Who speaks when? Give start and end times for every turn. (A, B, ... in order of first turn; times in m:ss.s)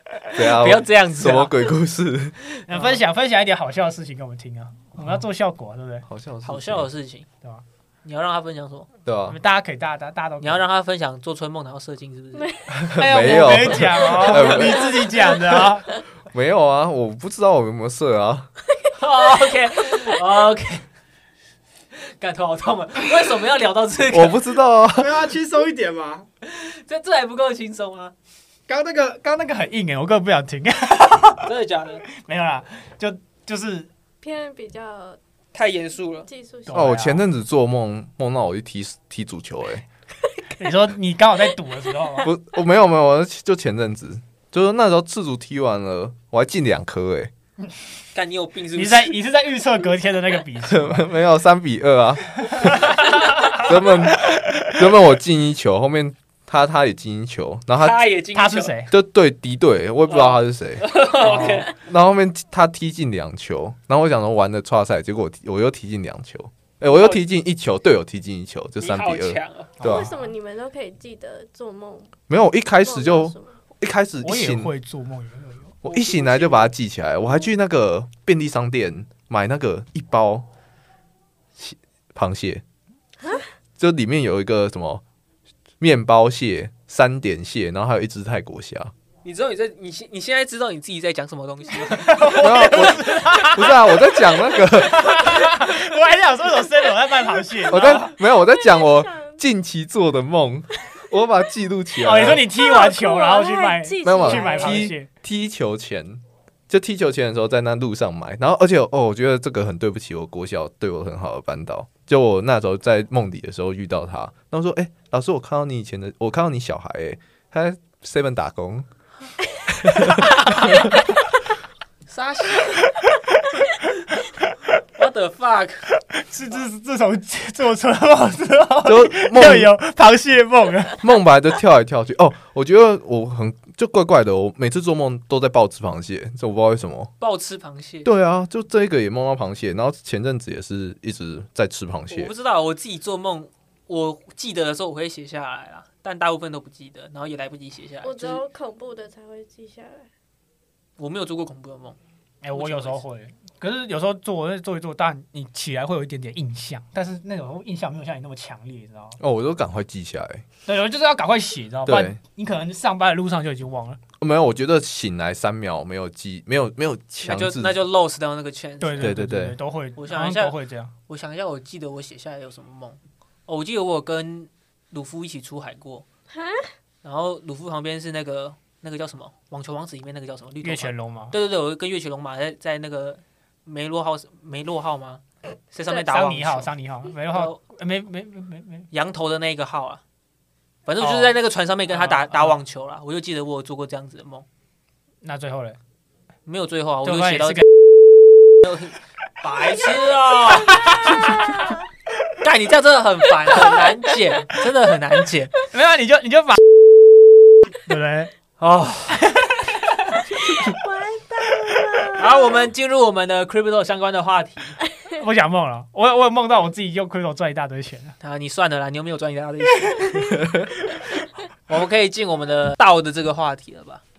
0:00.3-0:02.6 A
0:00.4-0:01.6 B
0:02.7-0:06.1 C
0:02.7-0:03.0 B
0:06.1-0:06.9 A
0:06.4-0:07.3 B
0:08.0-0:08.9 B
0:09.1-0:09.4 A
0:09.3-0:10.6 C
0:10.4-0:12.6 B
0:12.4-0:13.0 D
0:12.7-0:15.0 A
0:12.9-0:15.9 C
0:16.3-0:18.5 A
0:18.9-0:20.9 B
0:21.9-0:24.4 B
0:24.1-0:25.3 A
0:25.0-0:26.3 C
0:26.4-0:28.2 B
0:28.7-0:31.5 C
0:31.4-0:32.0 B
0:32.1-0:33.9 C
0:34.2-0:35.2 D
0:35.5-0:36.3 B
0:36.3-0:37.0 D
0:36.7-0:37.2 C
0:36.7-0:39.8 A
0:40.6-0:42.3 C
0:42.2-0:47.3 A
0:48.1-0:49.2 B
0:48.8-0:51.1 C
0:50.7-0:53.0 A
0:52.5-0:54.5 C
0:53.5-0:58.0 A
0:57.8-0:58.8 B
0:58.3-0:58.9 C
0:58.9-1:10.1 A
1:00.1-1:01.7 B
1:01.2-1:01.7 C
1:06.9-1:07.2 B
1:08.8-1:09.7 B
1:09.8-1:10.3 C
1:09.8-1:12.2 D
1:12.3-1:14.7 A
1:12.8-1:13.6 D
1:14.2-1:15.8 C
1:15.8-1:16.7 B
1:15.8-1:20.5 A
1:21.6-1:22.6 A
1:23.8-1:25.0 A
1:25.8-1:28.9 A
1:29.2-1:33.1 B
1:31.9-1:38.1 C
1:32.3-1:35.4 A
1:37.7-1:42.4 A
1:37.8-1:39.4 D
1:42.0-1:45.1 C
1:42.5-1:44.9 D
1:44.0-1:58.9 A
1:59.7-2:00.9 A
2:00.4-2:01.0 C
2:02.1-2:02.8 B
2:02.9-2:03.3 C
2:04.2-2:04.8 C
2:05.0-2:05.9 B
2:06.1-2:11.0 C
2:08.8-2:09.7 A
2:11.0-2:17.1 A
2:17.2-2:18.1 B
2:18.0-2:22.3 A
2:22.1-2:28.4 B
2:28.0-2:30.1 D
2:31.0-2:32.0 B
2:32.4-2:39.2 C
2:32.5-2:33.0 B
2:39.2-2:40.4 A
2:40.7-2:44.0 C
2:41.8-2:42.2 A
2:44.2-2:47.8 A
2:47.2-2:49.2 B
2:48.8-2:50.9 C
2:49.0-2:49.6 A
2:50.0-2:56.1 B
2:56.3-2:56.7 D
2:57.0-3:06.7 B
3:00.6-3:01.4 C
3:06.0-3:08.9 C
3:07.3-3:07.6 B
3:08.9-3:10.0 B
3:10.9-3:14.5 B
3:11.0-3:11.4 C
3:11.9-3:12.6 C
3:15.2-3:15.8 C
3:16.5-3:17.6 B
3:17.0-3:17.8 C
3:18.6-3:21.3 B
3:20.6-3:21.7 C
3:22.4-3:25.6 B
3:23.6-3:23.9 C
3:25.6-3:26.6 C
3:27.8-3:28.3 C
3:28.6-3:29.3 B
3:29.1-3:30.0 C
3:30.4-3:32.7 D
3:32.2-3:34.8 B
3:35.2-3:38.2 C
3:38.2-3:40.4 B
3:41.7-3:44.0 B